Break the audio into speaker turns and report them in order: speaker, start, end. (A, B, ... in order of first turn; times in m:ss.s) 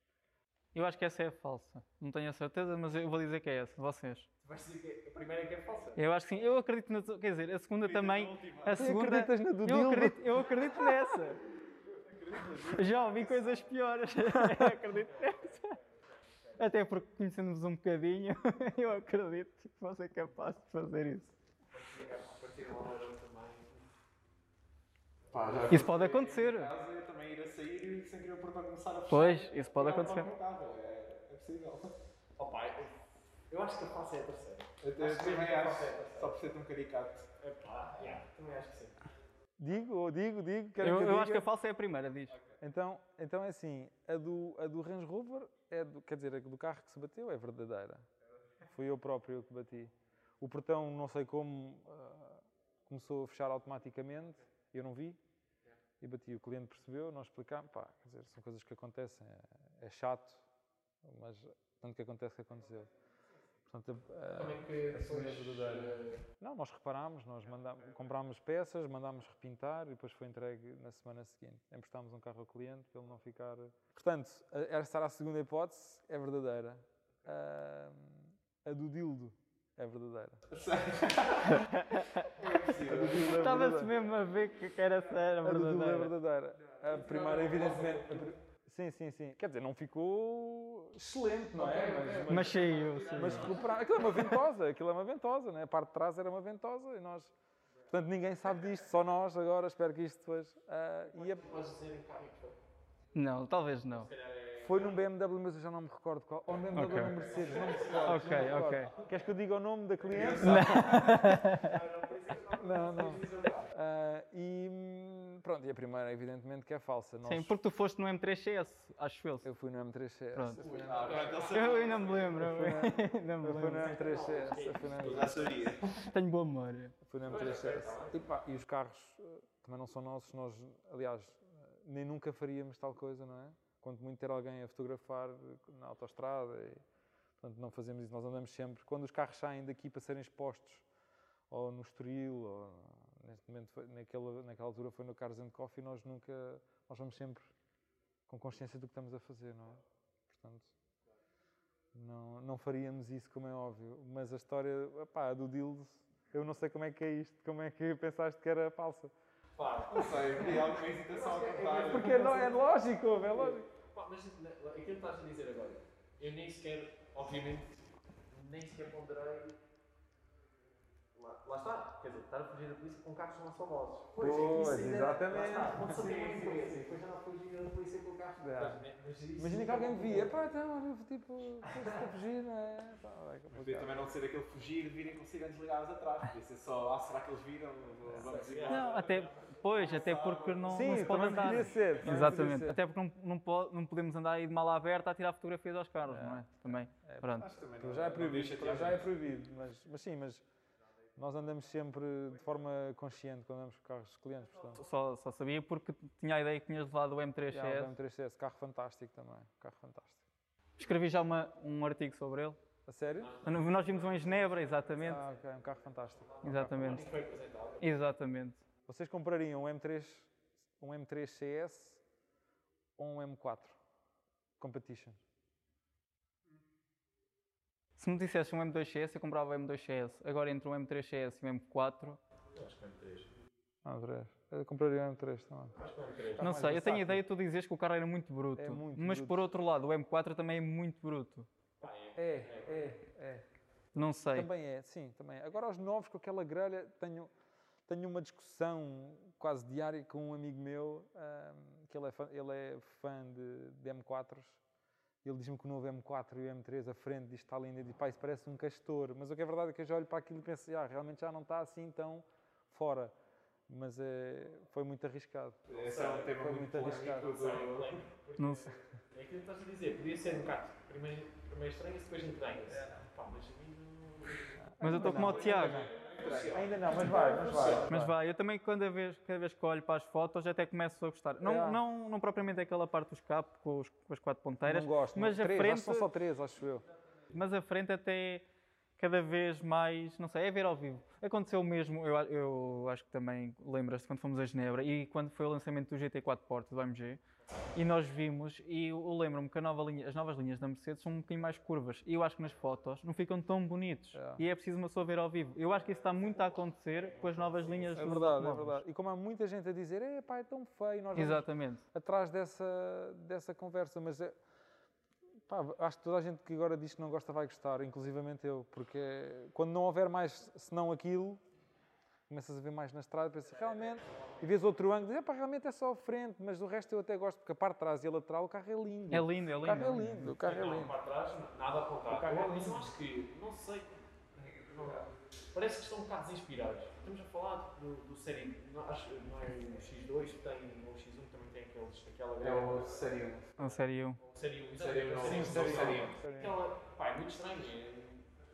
0:00.7-0:04.3 A
0:04.4-0:06.0 B
0:06.0-0:11.4 A
0:07.8-0:08.8 C
0:08.7-0:10.9 D
0:11.9-0:13.6 C
0:12.6-0:15.8 A
0:14.8-0:16.7 B
0:16.6-0:21.3 A
0:21.7-0:23.9 B
0:25.3-0:25.9 B
0:25.3-0:31.9 C
0:25.7-0:26.7 A
0:29.1-0:30.3 A
0:32.4-0:36.4 B
0:34.8-0:37.3 C
0:37.4-0:39.0 B
0:39.6-0:41.5 D
0:40.8-0:42.4 A
0:42.6-0:48.0 D
0:48.6-0:55.2 D
0:56.0-1:00.4 D
1:01.0-1:02.9 D
1:03.7-1:20.4 D
1:04.3-1:06.2 B
1:20.5-1:21.7 C
1:21.5-1:22.3 A
1:22.2-1:23.7 C
1:22.8-1:23.9 D
1:23.2-1:26.1 A
1:25.4-1:37.3 D
1:26.9-1:28.2 B
1:31.5-1:33.4 B
1:32.3-1:33.6 A
1:32.7-1:33.6 C
1:37.9-1:41.4 D
1:41.1-1:42.6 B
1:43.1-1:44.1 A
1:43.9-1:45.0 B
1:44.6-1:51.2 D
1:46.7-1:47.2 A
1:46.8-1:48.8 C
1:47.2-1:49.0 B
1:48.0-1:48.9 A
1:50.1-1:51.4 C
1:50.4-1:51.7 A
1:51.5-1:53.7 B
1:52.6-1:57.5 D
1:57.2-1:59.5 A
1:59.4-2:01.2 D
2:00.3-2:00.6 A
2:00.6-2:02.3 B
2:00.7-2:02.5 C
2:01.4-2:04.0 A
2:02.4-2:05.5 D
2:03.7-2:05.8 B
2:05.0-2:06.0 C
2:05.9-2:07.0 A
2:07.0-2:16.8 D
2:07.2-2:08.2 B
2:17.4-2:20.8 D
2:21.5-2:27.5 D
2:28.3-2:30.7 D
2:31.9-2:39.1 D
2:39.6-2:49.6 B
2:39.9-2:42.4 C
2:41.8-2:43.7 D
2:51.1-3:00.4 B
2:54.2-2:56.0 D
2:55.8-2:56.9 C
2:58.4-2:58.8 D
2:59.4-3:04.0 D
3:03.5-3:09.0 C
3:08.1-3:08.3 D
3:08.2-3:10.4 B
3:08.6-3:17.5 A
3:09.7-3:12.4 C
3:10.7-3:12.8 D
3:16.0-3:20.4 D
3:17.4-3:19.1 C
3:21.2-3:24.8 D
3:24.7-3:27.9 A
3:27.5-3:30.2 D
3:30.8-3:32.6 A
3:32.8-3:33.4 D
3:33.2-3:37.9 B
3:33.4-3:35.2 A
3:35.0-3:37.0 D
3:36.4-3:37.1 A
3:37.8-3:38.6 A
3:38.9-3:42.0 D
3:43.0-3:43.8 D
3:44.6-3:45.2 D
3:48.0-3:52.2 A
3:52.5-3:53.3 B
3:53.8-3:55.8 D
3:55.8-3:56.4 B
3:56.3-3:57.2 D
3:56.4-4:01.5 A
3:58.6-3:59.4 D
4:01.8-4:02.9 B
4:02.1-4:03.4 D
4:03.9-4:04.5 A
4:04.3-4:07.3 D
4:07.9-4:14.6 D
4:15.2-4:23.1 D
4:23.7-4:25.7 D
4:25.7-4:28.0 C
4:25.7-4:37.9 B
4:26.3-4:27.3 D
4:28.4-4:28.7 A
4:34.6-4:35.9 D
4:34.8-4:35.9 A
4:35.1-4:37.2 C
4:36.5-4:38.1 D
4:37.8-4:46.1 A
4:41.4-4:41.8 D
4:44.6-4:46.8 D
4:47.3-4:48.4 A
4:49.0-4:57.2 A
4:57.7-5:08.8 A
5:04.1-5:04.4 D
5:05.8-5:08.2 B
5:07.9-5:14.3 D
5:11.1-5:11.8 A
5:15.5-5:21.4 D
5:22.3-5:30.9 D
5:23.7-5:24.5 B
5:29.1-5:30.3 A
5:30.4-5:42.8 B
5:32.1-5:32.9 D
5:42.4-5:43.5 C
5:43.6-5:44.2 A
5:43.6-5:48.3 B
5:44.8-5:46.1 C
5:45.2-5:46.6 D